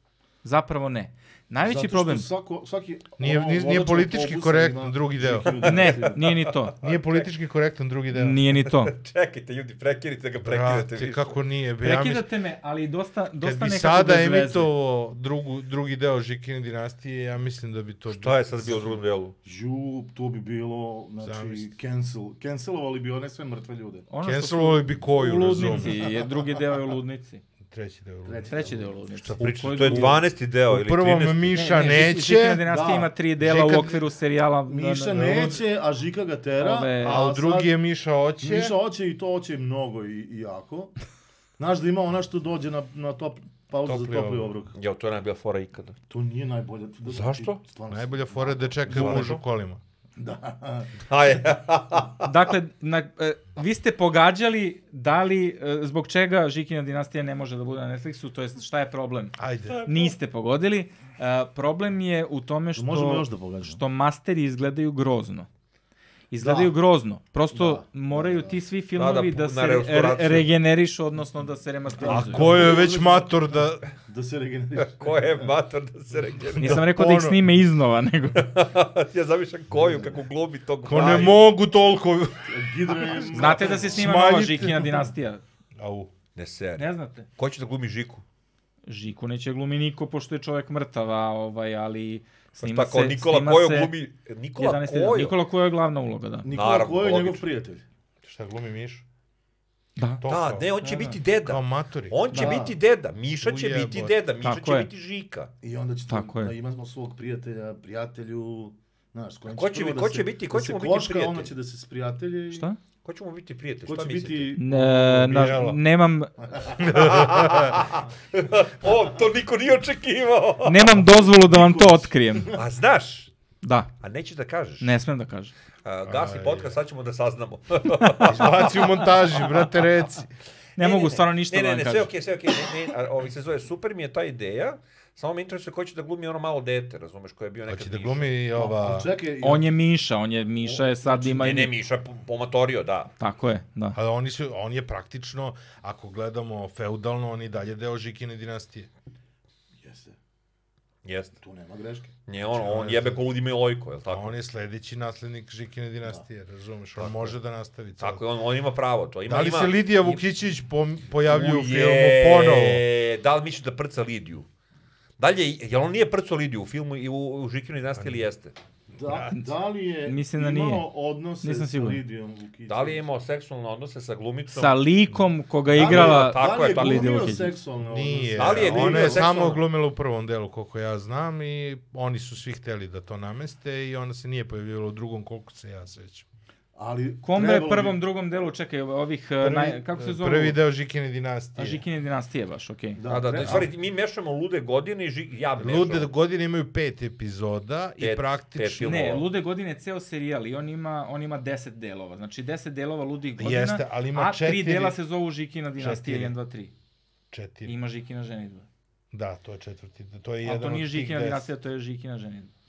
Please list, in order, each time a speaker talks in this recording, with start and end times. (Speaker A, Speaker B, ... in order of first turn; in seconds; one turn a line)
Speaker A: 0.4-2.3
Speaker B: 1.6-6.2
Speaker C: 3.2-5.6
Speaker D: 5.4-7.3
Speaker A: 5.6-6.7
Speaker C: 6.8-8.4
Speaker A: 8.1-8.9
Speaker D: 8.6-11.3
Speaker C: 10.4-12.2
Speaker A: 11.8-14.7
Speaker C: 13.4-18.7
Speaker D: 18.1-19.3
Speaker B: 19.4-24.1
Speaker C: 21.2-21.7
Speaker A: 24.1-27.4
Speaker C: 24.2-26.0
Speaker C: 27.6-32.6
Speaker B: 28.2-28.9
Speaker A: 28.5-30.2
Speaker D: 29.4-31.6
Speaker A: 31.5-35.5
Speaker B: 32.6-33.1
Speaker C: 33.4-34.0
Speaker B: 34.7-37.8
Speaker C: 35.1-35.6
Speaker A: 36.6-37.3
Speaker C: 37.0-38.7
Speaker B: 38.4-41.0
Speaker B: 41.6-44.7
Speaker C: 43.8-44.5
Speaker D: 44.7-46.0
Speaker B: 46.1-49.3
Speaker D: 47.0-47.6
Speaker C: 47.9-49.8
Speaker D: 48.9-49.4
Speaker B: 50.2-51.0
Speaker D: 51.1-52.3
Speaker A: 52.2-59.3
Speaker C: 59.4-59.9
Speaker D: 59.7-60.1
Speaker A: 59.9-65.5
Speaker B: 62.7-63.8
Speaker A: 66.3-72.7
Speaker B: 66.4-66.7
Speaker B: 67.5-68.6
Speaker D: 69.0-70.5
Speaker B: 72.0-75.5
Speaker C: 72.0-73.9
Speaker D: 74.8-76.8
Speaker C: 76.6-77.4
Speaker A: 76.6-78.5
Speaker D: 78.3-81.4
Speaker B: 79.7-80.1
Speaker C: 80.8-82.5
Speaker B: 82.5-84.1
Speaker C: 83.1-85.1
Speaker A: 83.3-85.4
Speaker C: 85.8-86.1
Speaker D: 86.3-88.2
Speaker A: 86.8-87.3
Speaker A: 88.9-93.9
Speaker D: 92.6-95.4
Speaker A: 94.6-96.5
Speaker B: 96.4-97.8
Speaker D: 96.5-97.4
Speaker C: 98.2-99.0
Speaker A: 100.0-100.2
Speaker C: 100.2-100.7
Speaker D: 100.2-105.5
Speaker A: 100.8-101.2
Speaker C: 101.4-102.2
Speaker B: 102.3-102.7
Speaker C: 103.4-104.1
Speaker A: 104.4-104.9
Speaker B: 105.6-112.7
Speaker A: 106.1-106.5
Speaker D: 109.5-111.5
Speaker A: 112.5-112.8
Speaker D: 113.0-114.5
Speaker B: 113.8-115.5
Speaker A: 114.5-116.3
Speaker C: 115.1-115.8
Speaker B: 116.4-117.5
Speaker C: 116.8-117.8
Speaker D: 116.8-120.9
Speaker A: 120.6-122.5
Speaker B: 121.0-122.6
Speaker D: 122.5-123.3
Speaker A: 123.6-123.9
Speaker D: 124.0-124.9
Speaker A: 124.8-125.5
Speaker D: 125.8-129.6
Speaker C: 126.0-126.8
Speaker A: 128.0-128.9
Speaker C: 128.2-130.3
Speaker A: 130.8-132.1
Speaker D: 130.8-138.3
Speaker C: 137.7-139.1
Speaker B: 138.5-139.7
Speaker A: 139.4-141.7
Speaker B: 140.6-141.6
Speaker D: 141.4-143.1
Speaker A: 143.2-144.0
Speaker C: 143.9-148.9
Speaker B: 149.8-150.2
Speaker D: 151.0-151.3
Speaker B: 151.4-152.2
Speaker D: 152.3-154.3
Speaker C: 152.5-153.2
Speaker C: 154.1-158.2
Speaker D: 157.0-157.3
Speaker D: 158.0-160.2
Speaker C: 159.2-162.8
Speaker D: 161.2-164.5
Speaker D: 165.2-168.5
Speaker C: 168.0-168.2
Speaker B: 168.9-173.0
Speaker C: 169.1-169.3
Speaker A: 170.0-170.8
Speaker A: 171.4-172.0
Speaker D: 172.7-174.8
Speaker A: 174.5-177.6
Speaker D: 175.7-177.3
Speaker B: 175.7-179.2
Speaker C: 177.8-186.2
Speaker D: 178.3-179.6
Speaker B: 186.7-188.0
Speaker A: 187.2-190.6
Speaker C: 189.4-191.8
Speaker A: 191.6-193.0
Speaker B: 192.9-193.7
Speaker D: 193.1-196.1
Speaker C: 195.6-199.0
Speaker D: 198.0-199.3
Speaker A: 198.8-206.7
Speaker C: 203.4-205.0
Speaker C: 205.8-206.3
Speaker C: 207.3-207.7
Speaker A: 207.6-208.7
Speaker C: 209.1-211.5
Speaker A: 210.4-212.5